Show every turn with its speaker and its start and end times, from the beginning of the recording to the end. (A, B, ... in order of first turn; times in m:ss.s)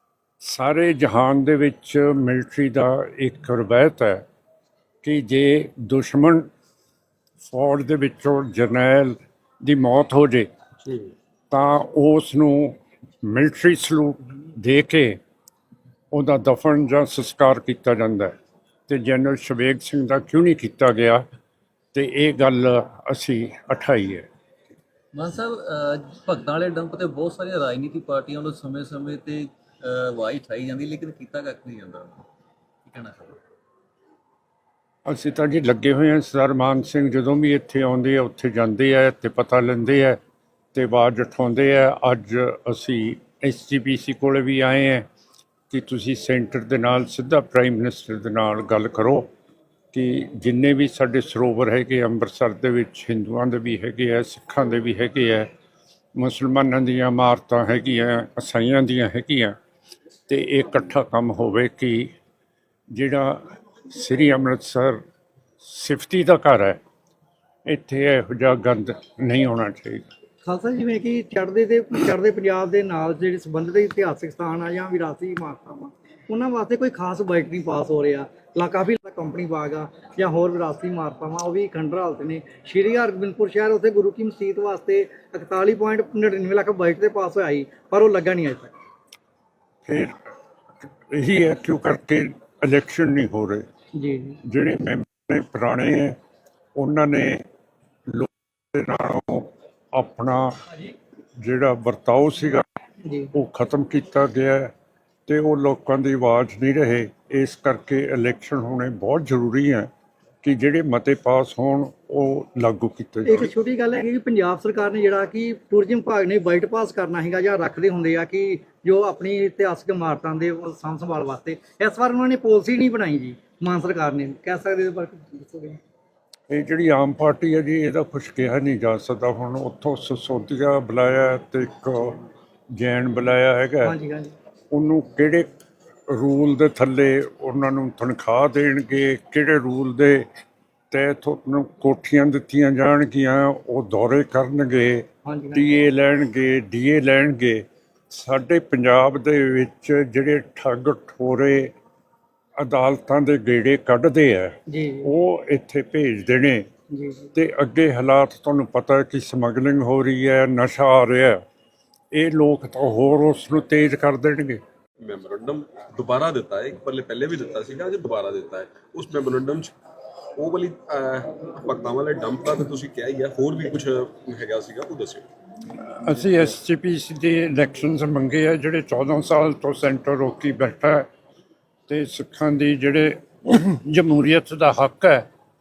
0:00.4-0:04.2 A
0:05.0-0:06.5 A
0:07.4-0:10.5 A
0:11.5-0:15.2 A
0:16.1-0:18.3 A
0:18.9-0:21.2 A
0:21.9-0:24.3 A
0:25.1-0:32.2 B
0:32.8-0:33.4 B
0:35.1-0:40.2 A
0:40.7-0:45.0 A
0:45.7-0:49.3 A
0:49.9-0:55.5 A
0:56.1-0:59.6 A
1:00.3-1:02.1 A
1:02.9-1:05.0 A
1:05.6-1:06.8 A
1:07.7-1:10.1 A
1:10.4-1:28.7 C
1:29.8-1:30.1 A
1:31.1-1:33.6 A
1:34.0-1:34.4 C
1:34.4-1:36.2 A
1:36.8-1:37.4 A
1:38.1-1:40.5 A
1:41.4-1:42.6 A
1:43.0-1:43.3 C
1:43.3-1:44.7 A
1:45.3-1:49.9 A
1:50.4-1:53.5 A
1:53.2-2:05.8 C
2:06.5-2:12.2 A
2:12.7-2:13.9 A
2:13.8-2:14.3 C
2:14.7-2:15.4 A
2:16.1-2:20.2 A
2:20.9-2:31.7 A
2:25.2-2:25.6 C
2:32.6-2:36.6 A
2:34.7-2:35.1 C
2:36.9-2:37.3 C
2:37.3-2:41.4 A
2:42.1-2:44.6 A
2:45.0-2:49.7 D
2:50.4-2:55.2 D
2:55.8-3:01.1 A
3:01.9-3:05.2 A